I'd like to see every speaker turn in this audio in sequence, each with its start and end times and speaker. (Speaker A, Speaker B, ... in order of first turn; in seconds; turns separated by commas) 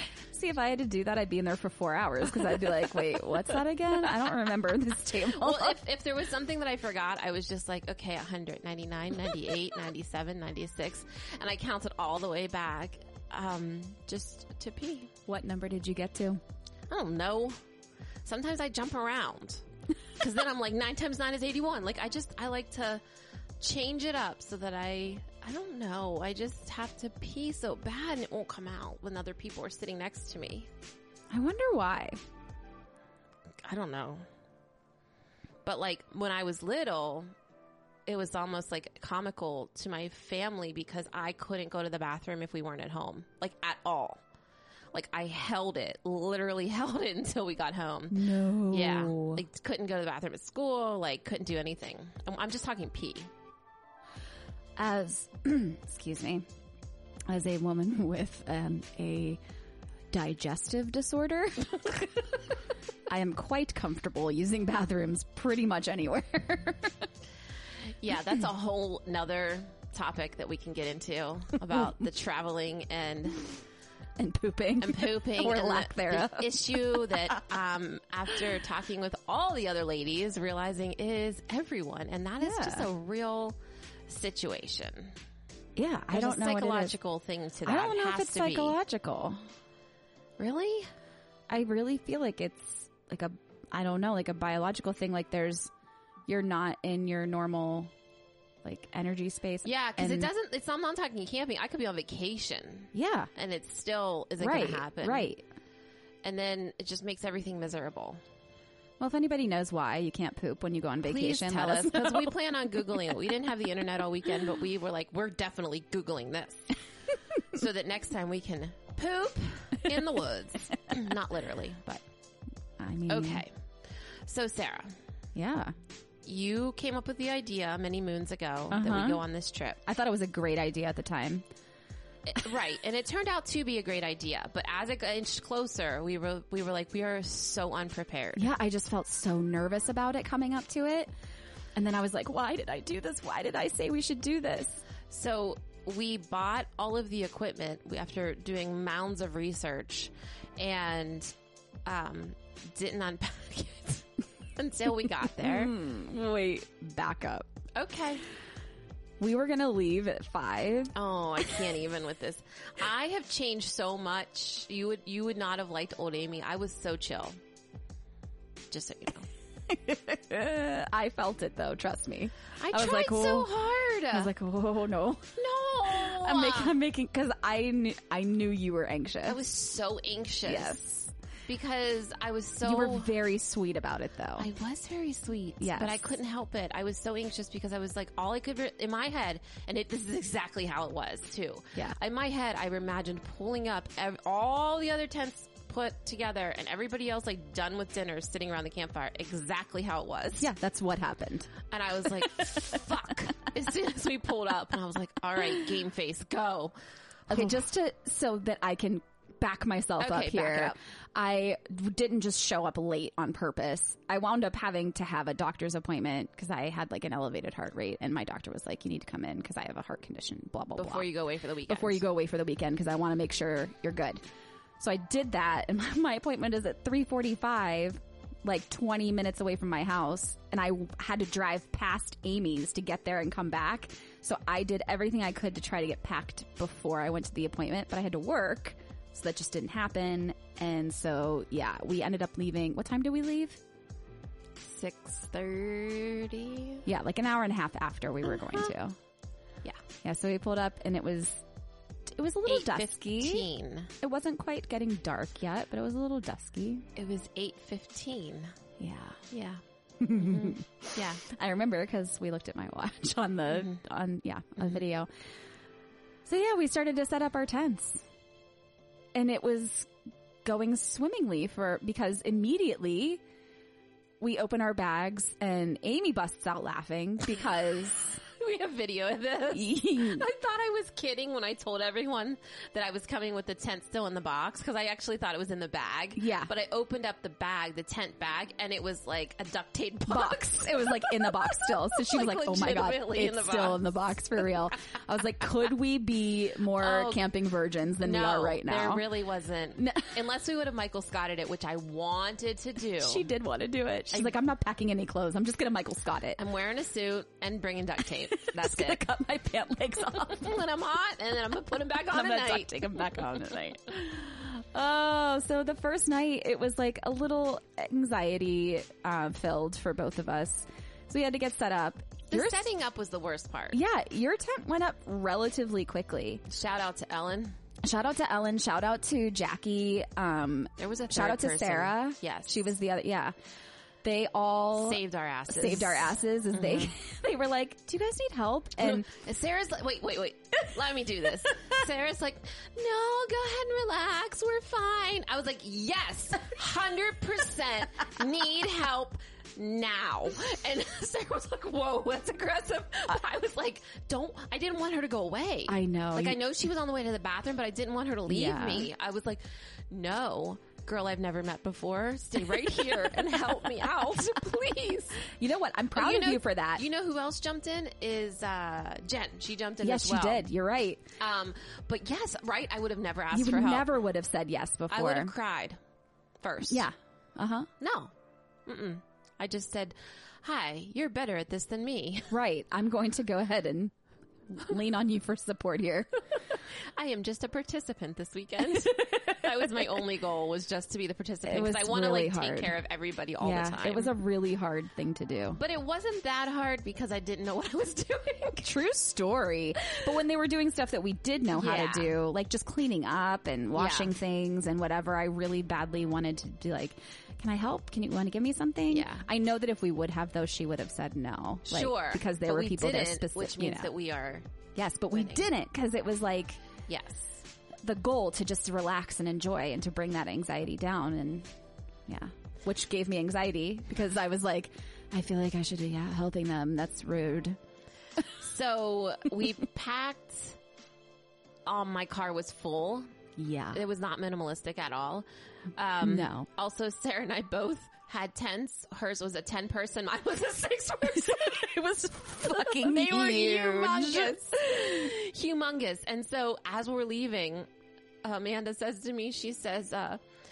Speaker A: 0.3-5.8, Speaker B: 5.2-15.1, Speaker A: 15.3-16.4, Speaker B: 16.9-17.6, Speaker B: 18.2-19.6, Speaker B: 20.2-23.0, Speaker B: 23.6-30.7, Speaker A: 31.3-32.3, Speaker B: 33.6-34.3, Speaker B: 35.6-37.3, Speaker B: 38.1-44.2, Speaker B: 44.9-53.3, Speaker A: 48.1-49.4, Speaker A: 54.8-56.5, Speaker A: 57.3-59.4, Speaker A: 60.1-62.3, Speaker A: 63.1-67.0, Speaker B: 68.0-73.5, Speaker A: 71.7-72.0, Speaker A: 74.2-77.4, Speaker B: 74.8-83.6, Speaker A: 82.4-82.9, Speaker B: 84.1-85.2, Speaker A: 85.8-87.0, Speaker B: 86.1-88.8, Speaker A: 87.7-89.4, Speaker B: 90.4-90.9, Speaker A: 91.5-95.7, Speaker A: 96.3-97.9, Speaker A: 98.6-100.3, Speaker B: 99.6-105.3, Speaker A: 102.9-103.3, Speaker A: 104.4-105.4, Speaker B: 106.2-108.2, Speaker A: 109.0-112.3, Speaker B: 111.0-116.8, Speaker B: 117.4-122.0, Speaker A: 122.8-123.4, Speaker B: 123.1-123.5, Speaker B: 124.3-125.0, Speaker A: 125.3-125.7, Speaker B: 126.3-129.8, Speaker A: 128.7-129.2, Speaker A: 129.8-131.4, Speaker B: 132.3-138.5, Speaker A: 138.4-141.1, Speaker A: 141.8-144.8, Speaker B: 145.1-151.3, Speaker B: 151.8-155.7, Speaker A: 155.2-157.5, Speaker B: 157.7-158.2, Speaker A: 159.2-160.9, Speaker B: 160.9-167.4, Speaker B: 168.7-169.3, Speaker A: 169.7-179.4, Speaker B: 172.6-174.3, Speaker B: 175.4-176.8, Speaker B: 179.3-180.8, Speaker A: 180.4-181.1, Speaker B: 181.5-183.1, Speaker A: 182.6-184.5, Speaker B: 184.4-200.5, Speaker A: 185.6-186.0, Speaker A: 200.4-201.5, Speaker B: 201.7-206.7, Speaker A: 207.3-221.1, Speaker B: 210.0-210.8, Speaker B: 220.8-222.0, Speaker A: 221.7-224.2, Speaker A: 224.8-243.6, Speaker B: 244.6-246.8, Speaker A: 246.8-248.9, Speaker A: 250.0-251.4, Speaker A: 252.1-253.5, Speaker B: 252.5-253.9, Speaker A: 254.0-256.9, Speaker B: 257.0-258.5, Speaker A: 258.8-259.2, Speaker B: 259.3-259.6, Speaker A: 260.0-265.1, Speaker B: 260.1-261.2, Speaker A: 266.3-268.0, Speaker A: 269.1-269.9, Speaker A: 270.4-273.2, Speaker A: 274.2-278.2, Speaker B: 278.2-293.9, Speaker A: 279.5-280.3, Speaker A: 286.2-286.5, Speaker A: 290.1-299.1, Speaker B: 296.8-297.3, Speaker B: 298.0-303.3, Speaker A: 299.8-300.1, Speaker A: 303.0-306.4, Speaker B: 306.4-309.0, Speaker A: 308.4-310.6, Speaker B: 310.2-313.0, Speaker A: 312.1-322.6, Speaker B: 322.3-323.8, Speaker A: 323.7-326.4, Speaker B: 326.5-327.6, Speaker A: 327.8-333.3, Speaker B: 330.8-332.7, Speaker A: 334.0-339.1, Speaker B: 334.8-336.9, Speaker B: 338.8-365.3, Speaker A: 355.7-356.4, Speaker A: 358.3-358.9, Speaker A: 365.2-366.8, Speaker B: 365.9-370.5, Speaker A: 369.8-371.1, Speaker B: 371.2-373.9, Speaker A: 373.3-375.3, Speaker B: 374.9-375.8, Speaker B: 376.4-376.9, Speaker A: 376.7-377.7, Speaker B: 377.8-378.1, Speaker B: 378.7-382.4, Speaker A: 382.3-383.9, Speaker A: 384.5-386.1, Speaker B: 386.9-394.2, Speaker A: 391.5-392.8, Speaker A: 393.4-395.6, Speaker B: 395.6-398.7, Speaker A: 398.6-413.9, Speaker B: 401.5-402.2, Speaker B: 403.7-404.1, Speaker B: 408.9-409.3, Speaker B: 411.7-414.4, Speaker A: 414.8-416.6, Speaker B: 415.1-415.5, Speaker B: 416.9-417.4, Speaker A: 417.8-421.5, Speaker A: 422.1-427.6, Speaker B: 428.2-430.6, Speaker B: 431.7-433.1, Speaker A: 433.4-433.8, Speaker B: 433.7-441.8, Speaker A: 436.0-436.5, Speaker A: 441.2-444.4, Speaker B: 442.4-447.7, Speaker B: 448.2-450.2